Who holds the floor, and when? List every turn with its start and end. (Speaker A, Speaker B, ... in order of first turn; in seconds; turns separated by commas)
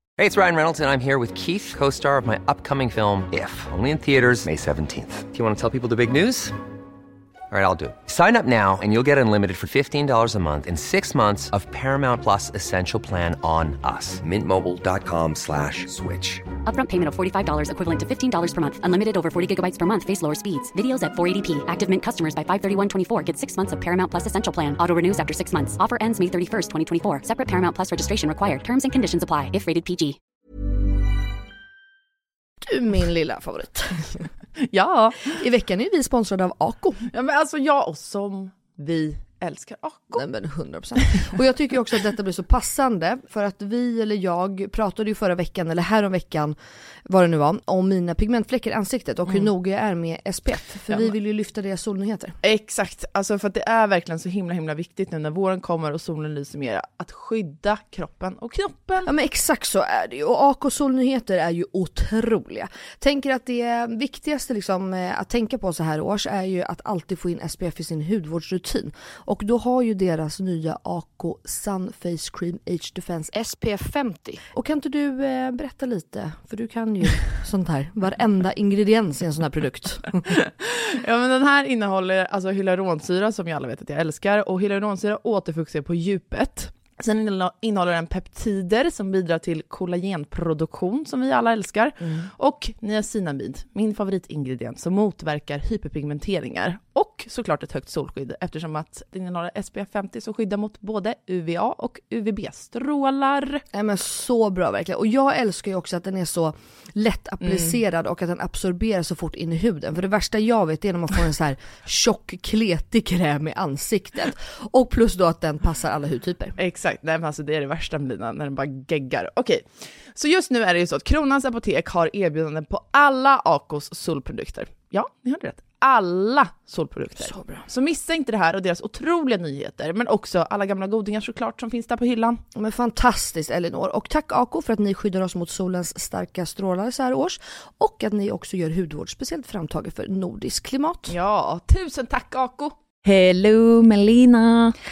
Speaker A: 0.2-6.5, Speaker A: 7.5-16.5, Speaker B: 16.6-30.2, Speaker C: 32.6-34.2, Speaker D: 34.6-35.4, Speaker C: 35.3-37.1, Speaker D: 37.1-40.2, Speaker C: 40.1-46.6, Speaker C: 47.1-52.4, Speaker D: 52.4-59.1, Speaker C: 59.0-80.2, Speaker D: 80.3-103.6, Speaker C: 103.7-116.6, Speaker D: 107.4-107.8, Speaker D: 116.6-132.4, Speaker C: 127.2-127.6, Speaker C: 132.6-141.2, Speaker D: 141.1-144.8